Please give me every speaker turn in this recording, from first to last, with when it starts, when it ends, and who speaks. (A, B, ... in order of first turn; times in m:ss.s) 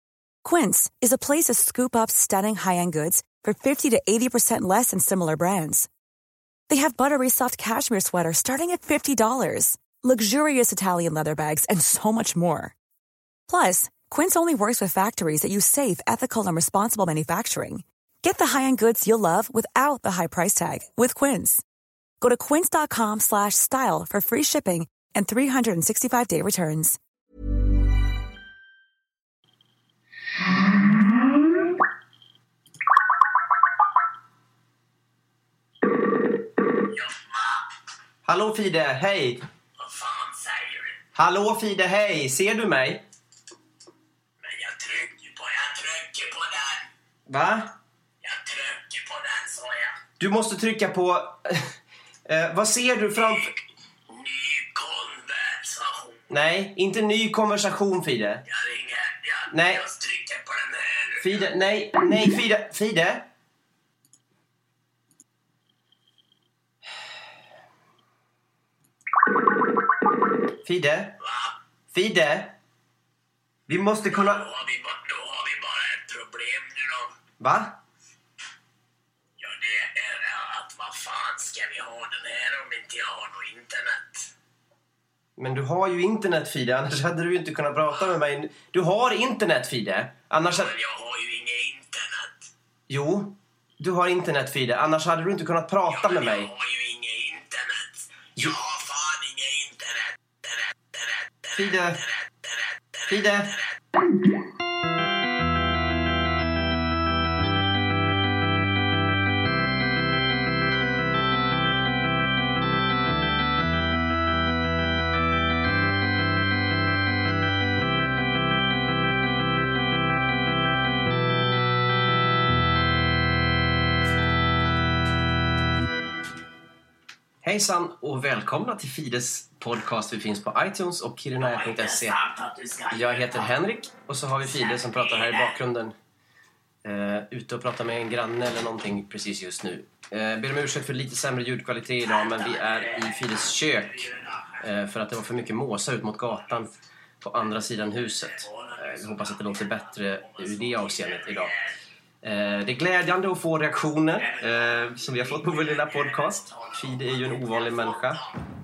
0:00.4-0:05.9 A
0:06.7-0:12.7 A
0:13.5-0:21.6 A
0:22.2-0:27.0 A
0:37.0-0:37.6 B
0:38.2-0:39.4 C
0:39.8-0:41.0 B
0:41.2-0:43.0 C
0:44.4-0:46.9 B
0:47.3-0:47.7 C
0:48.2-0:50.0 B
0:50.2-0:51.7 C
0:52.2-0:53.5 C
0:53.1-0:56.3 B
0:56.3-0:58.4 C
0:58.5-1:01.5 B
0:59.5-0:59.8 C
1:01.2-1:03.3 C
1:10.6-1:11.2 C
1:11.2-1:11.5 B
1:11.9-1:12.6 C
1:13.7-1:14.4 C
1:14.1-1:17.1 B
1:17.4-1:17.8 C
1:19.4-1:24.3 B
1:25.4-1:30.7 C
1:30.4-1:32.5 B
1:32.9-1:36.5 C
1:35.9-1:43.8 B
1:41.5-1:42.0 C
1:43.1-1:43.5 C
2:07.4-2:12.2 C
2:11.4-2:13.5 B
2:12.9-2:15.9 C
2:14.4-2:15.5 B
2:16.8-2:24.1 C
2:22.0-2:24.6 B
2:24.6-2:26.7 C
2:27.2-2:31.5 C
2:27.9-2:31.8 B
2:32.2-2:38.2 C
2:34.2-2:38.3 B